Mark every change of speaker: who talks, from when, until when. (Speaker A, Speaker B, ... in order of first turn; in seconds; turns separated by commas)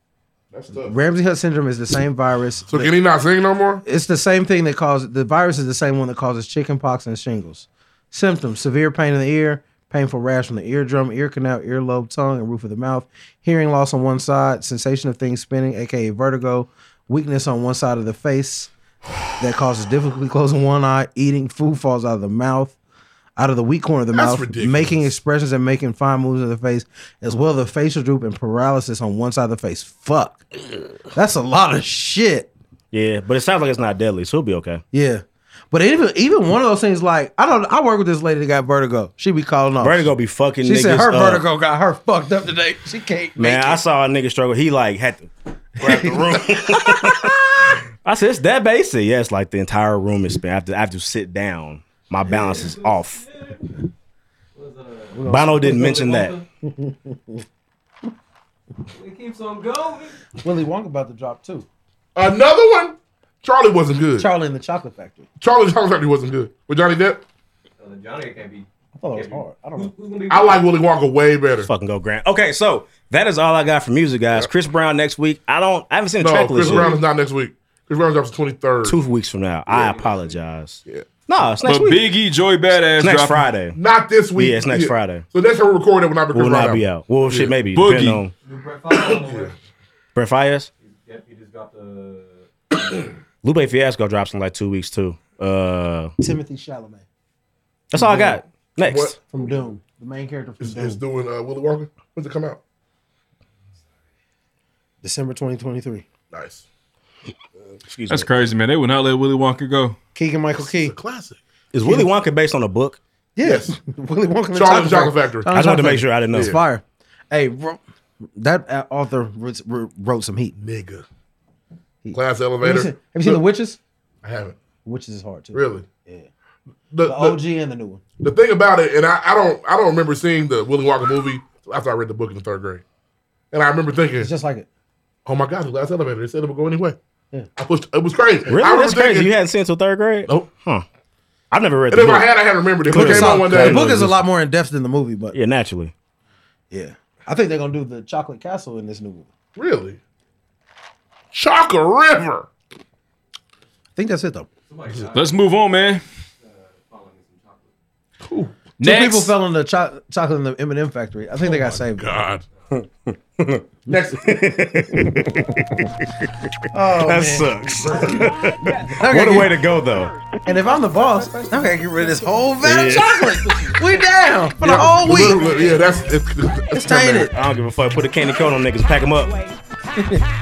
Speaker A: 0.5-0.9, Speaker B: 0.8-2.9, Speaker A: 2.7-3.8, Speaker B: 3.9-18.7, Speaker B: 19.4-22.8, Speaker B: 23.4-30.4, Speaker A: 24.1-25.1, Speaker B: 31.1-32.5, Speaker C: 32.9-34.8, Speaker B: 34.9-40.1, Speaker C: 39.8-41.5, Speaker B: 40.6-43.8, Speaker C: 43.4-45.3, Speaker A: 45.8-46.4, Speaker B: 45.8-47.0, Speaker C: 45.8-47.4, Speaker C: 48.0-53.2, Speaker D: 52.5-53.5, Speaker D: 54.6-55.2, Speaker B: 55.1-56.0, Speaker C: 55.3-56.4, Speaker D: 55.9-56.4, Speaker B: 56.6-57.4, Speaker D: 58.9-60.1, Speaker B: 60.4-61.7, Speaker A: 62.1-64.3, Speaker B: 64.2-65.2, Speaker A: 65.4-67.2, Speaker D: 67.8-70.6, Speaker B: 69.0-69.9, Speaker A: 70.3-71.7, Speaker C: 71.6-77.0, Speaker A: 76.2-79.0, Speaker C: 78.8-82.0, Speaker A: 79.7-79.9, Speaker E: 81.7-83.5, Speaker C: 83.0-83.8, Speaker A: 83.8-87.5, Speaker C: 84.4-85.2, Speaker C: 86.3-88.3, Speaker E: 87.7-88.2, Speaker D: 88.5-89.5, Speaker A: 88.9-89.5, Speaker C: 90.2-90.7, Speaker D: 90.8-92.3, Speaker C: 93.4-96.1, Speaker B: 96.2-97.0, Speaker C: 97.9-99.2, Speaker B: 97.9-98.4, Speaker A: 98.8-99.2, Speaker B: 99.3-101.0, Speaker A: 100.6-102.6, Speaker B: 105.0-106.0, Speaker A: 106.3-106.6, Speaker C: 107.9-108.3, Speaker E: 108.1-110.0, Speaker B: 110.2-111.0, Speaker A: 110.6-111.4, Speaker C: 111.7-113.0, Speaker B: 113.4-117.8, Speaker A: 113.4-113.8, Speaker A: 114.5-115.5, Speaker C: 115.5-116.6, Speaker B: 118.4-120.5, Speaker A: 120.6-121.0, Speaker B: 122.0-123.8, Speaker A: 122.1-123.4, Speaker A: 124.2-124.6, Speaker B: 124.8-126.3, Speaker A: 125.5-125.8, Speaker A: 126.9-127.4, Speaker B: 127.0-128.0, Speaker A: 128.2-132.8, Speaker A: 133.5-134.3, Speaker B: 134.2-134.7, Speaker A: 135.3-137.0, Speaker A: 137.6-139.3, Speaker C: 138.5-140.8, Speaker C: 141.5-142.3, Speaker A: 141.9-144.1, Speaker C: 142.9-144.2, Speaker B: 142.9-145.4, Speaker C: 145.3-145.9, Speaker B: 146.7-149.3, Speaker A: 149.6-150.0, Speaker A: 151.3-152.5, Speaker B: 154.0-154.5, Speaker D: 154.7-155.3, Speaker E: 155.1-156.0, Speaker D: 156.5-157.7, Speaker A: 158.3-158.5, Speaker E: 158.8-159.3, Speaker B: 158.8-162.1, Speaker A: 161.4-162.4, Speaker C: 162.7-166.3, Speaker A: 163.9-164.3, Speaker B: 166.7-168.2, Speaker C: 166.9-170.1, Speaker B: 168.9-169.5, Speaker B: 170.5-175.5, Speaker C: 172.6-173.4, Speaker A: 174.6-177.1, Speaker B: 176.7-177.3, Speaker C: 176.9-179.4, Speaker B: 180.0-180.2